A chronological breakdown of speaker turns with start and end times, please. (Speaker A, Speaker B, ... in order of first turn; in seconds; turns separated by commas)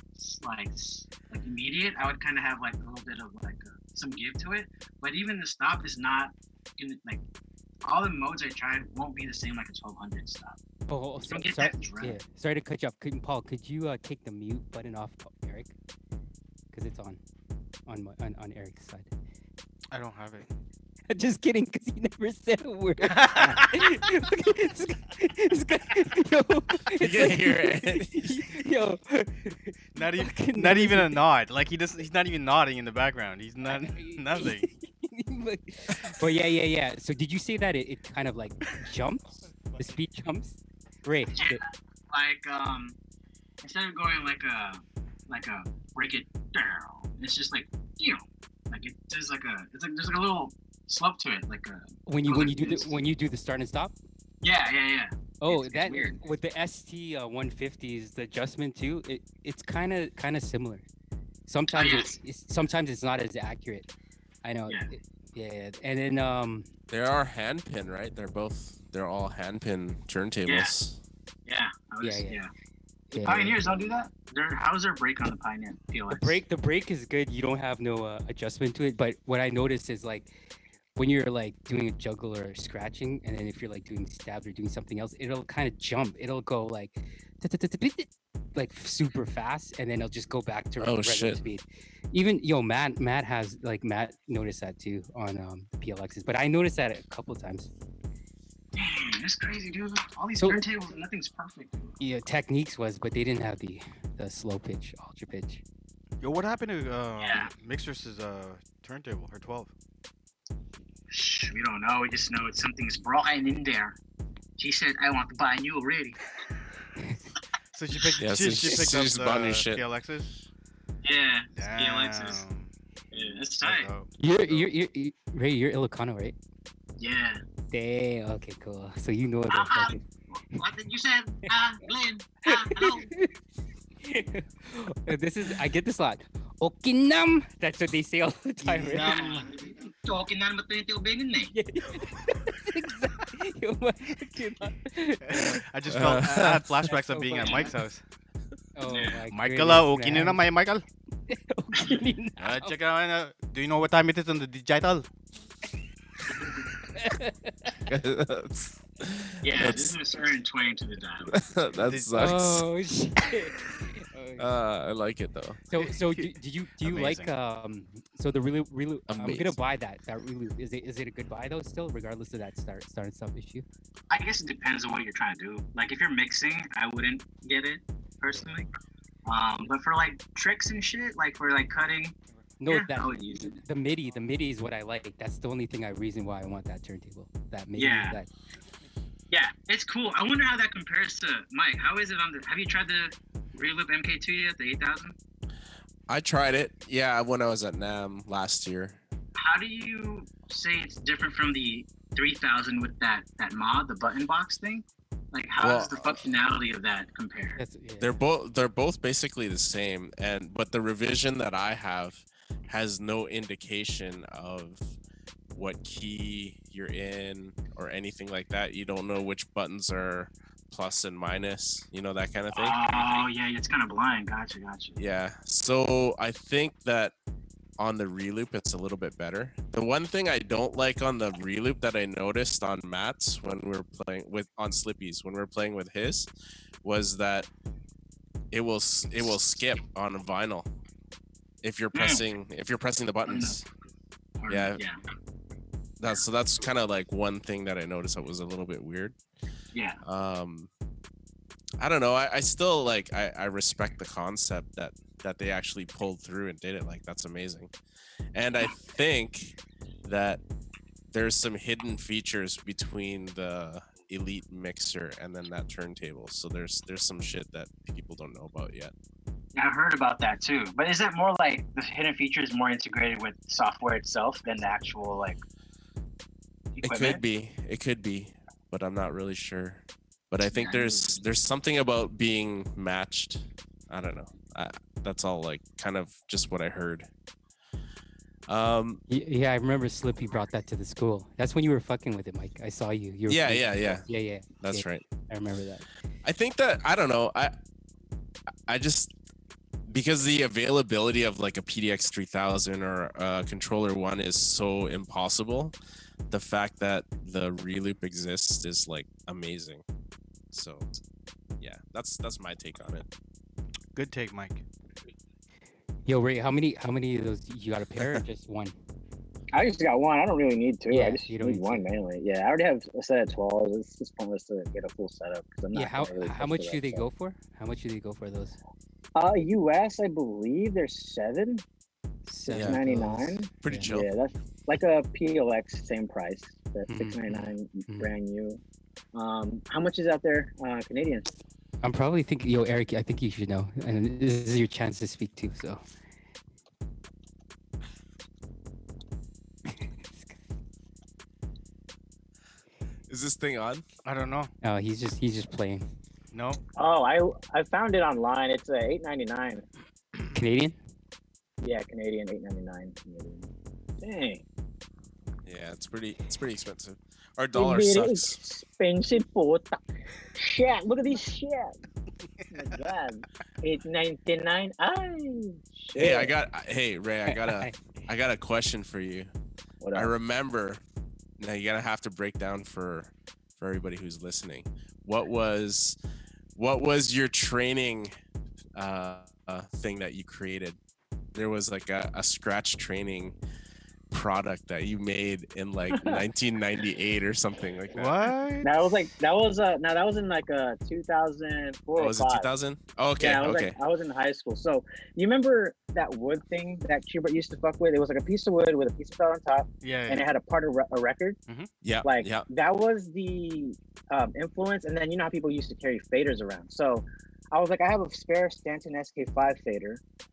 Speaker A: 0.2-7.2, Speaker A: 7.8-10.6, Speaker B: 10.9-15.7, Speaker A: 11.2-12.2, Speaker B: 16.7-17.2, Speaker B: 17.9-19.1, Speaker C: 19.9-20.5, Speaker B: 21.1-31.3, Speaker C: 23.0-24.1, Speaker D: 27.0-28.3, Speaker C: 29.9-34.7, Speaker B: 33.6-41.6, Speaker A: 42.1-43.0, Speaker A: 43.6-53.0, Speaker B: 52.1-54.0, Speaker A: 54.4-56.2, Speaker B: 55.4-60.8, Speaker B: 61.5-63.9, Speaker A: 61.7-62.2, Speaker B: 64.4-66.7, Speaker D: 66.9-71.0, Speaker A: 70.5-70.7, Speaker A: 71.5-72.5, Speaker B: 72.0-72.4, Speaker B: 73.1-73.7, Speaker A: 73.2-76.4, Speaker B: 76.1-80.3, Speaker B: 81.0-97.7, Speaker D: 90.8-91.4, Speaker A: 98.8-102.0, Speaker B: 102.0-105.6, Speaker C: 106.2-109.7, Speaker A: 107.2-107.5, Speaker A: 111.1-114.0, Speaker A: 114.6-116.2, Speaker C: 117.7-120.4, Speaker D: 118.2-119.8, Speaker A: 121.0-122.4, Speaker C: 121.5-124.7, Speaker E: 121.8-122.1, Speaker A: 123.1-123.9, Speaker B: 124.2-126.3, Speaker A: 127.0-127.4, Speaker B: 127.7-130.0, Speaker A: 129.5-130.0, Speaker A: 130.5-133.1, Speaker B: 132.5-133.3, Speaker B: 134.0-139.2, Speaker C: 138.6-139.6, Speaker A: 139.0-141.5, Speaker B: 141.5-145.6, Speaker C: 145.2-148.0, Speaker D: 145.9-146.7, Speaker B: 146.8-147.7, Speaker B: 148.8-150.5, Speaker C: 149.3-150.8, Speaker B: 151.3-152.8, Speaker C: 152.4-155.1, Speaker B: 156.9-157.7, Speaker D: 157.8-160.0, Speaker A: 159.4-161.3, Speaker E: 159.5-160.6, Speaker D: 161.3-162.7, Speaker C: 161.8-162.3, Speaker B: 162.2-164.5, Speaker D: 164.4-165.6, Speaker B: 165.7-173.7, Speaker C: 165.7-167.3, Speaker D: 169.1-169.6, Speaker E: 174.1-175.0, Speaker A: 174.1-178.7, Speaker E: 175.8-176.5, Speaker B: 178.3-178.5, Speaker A: 179.3-182.1, Speaker E: 179.6-180.2, Speaker E: 181.2-182.1, Speaker B: 182.6-188.3, Speaker A: 182.7-183.6, Speaker E: 182.7-183.0, Speaker E: 187.8-188.2, Speaker A: 187.8-188.2, Speaker A: 189.3-195.1, Speaker E: 189.9-195.1, Speaker D: 196.1-199.0, Speaker A: 199.4-204.8, Speaker E: 199.6-204.7, Speaker A: 205.3-207.6, Speaker D: 205.6-206.4, Speaker E: 205.6-207.5, Speaker B: 207.6-208.2, Speaker D: 208.0-214.8, Speaker D: 215.6-223.1, Speaker E: 222.6-225.0, Speaker A: 222.6-225.0, Speaker D: 225.0-227.1, Speaker D: 227.8-236.3, Speaker D: 236.8-237.5, Speaker D: 238.5-240.7, Speaker D: 241.6-243.7, Speaker E: 241.9-242.2, Speaker E: 243.3-243.6, Speaker E: 244.4-245.0, Speaker A: 244.5-244.9, Speaker D: 244.5-244.8, Speaker D: 246.0-249.2, Speaker E: 249.8-250.0, Speaker D: 250.0-250.7, Speaker D: 251.8-257.7, Speaker D: 258.3-260.4, Speaker D: 261.1-268.9, Speaker E: 269.6-270.8, Speaker A: 269.6-275.4, Speaker E: 272.6-275.3, Speaker A: 276.8-277.2, Speaker E: 276.8-277.2, Speaker D: 276.8-287.1, Speaker E: 280.5-281.2, Speaker A: 280.6-280.9, Speaker D: 288.5-289.0, Speaker B: 289.1-295.9, Speaker D: 293.3-294.1, Speaker D: 294.6-295.0, Speaker D: 296.2-297.5, Speaker D: 298.7-299.1, Speaker D: 299.9-305.8, Speaker D: 306.3-309.8, Speaker D: 310.5-310.9, Speaker D: 311.6-313.1, Speaker C: 313.9-314.6, Speaker B: 316.1-318.8, Speaker A: 319.5-327.0, Speaker B: 320.9-321.9, Speaker B: 325.7-328.6, Speaker A: 329.1-331.6, Speaker B: 332.3-333.9, Speaker A: 332.5-338.6, Speaker D: 332.5-332.8, Speaker D: 333.6-334.1, Speaker B: 336.9-338.1, Speaker A: 339.1-341.3, Speaker B: 341.8-345.8, Speaker B: 349.8-350.4, Speaker D: 353.1-353.8, Speaker C: 354.1-354.5, Speaker B: 354.6-355.9, Speaker C: 356.3-356.6, Speaker A: 356.8-359.6, Speaker B: 360.3-360.8, Speaker A: 361.6-363.5, Speaker A: 364.0-364.4, Speaker D: 365.4-368.4, Speaker A: 367.6-369.9, Speaker A: 370.4-371.8, Speaker C: 372.4-372.8, Speaker A: 372.5-376.3, Speaker D: 375.9-379.3, Speaker B: 377.3-377.7, Speaker A: 379.8-380.1, Speaker D: 379.9-380.8, Speaker D: 381.4-386.0, Speaker D: 386.6-388.1, Speaker D: 388.8-390.8, Speaker D: 391.4-393.4, Speaker D: 394.1-398.1, Speaker A: 395.9-396.2, Speaker C: 397.9-398.9, Speaker A: 398.6-402.5, Speaker D: 401.9-403.8, Speaker A: 403.2-411.4, Speaker C: 409.8-410.2, Speaker D: 411.8-412.5, Speaker A: 412.1-420.0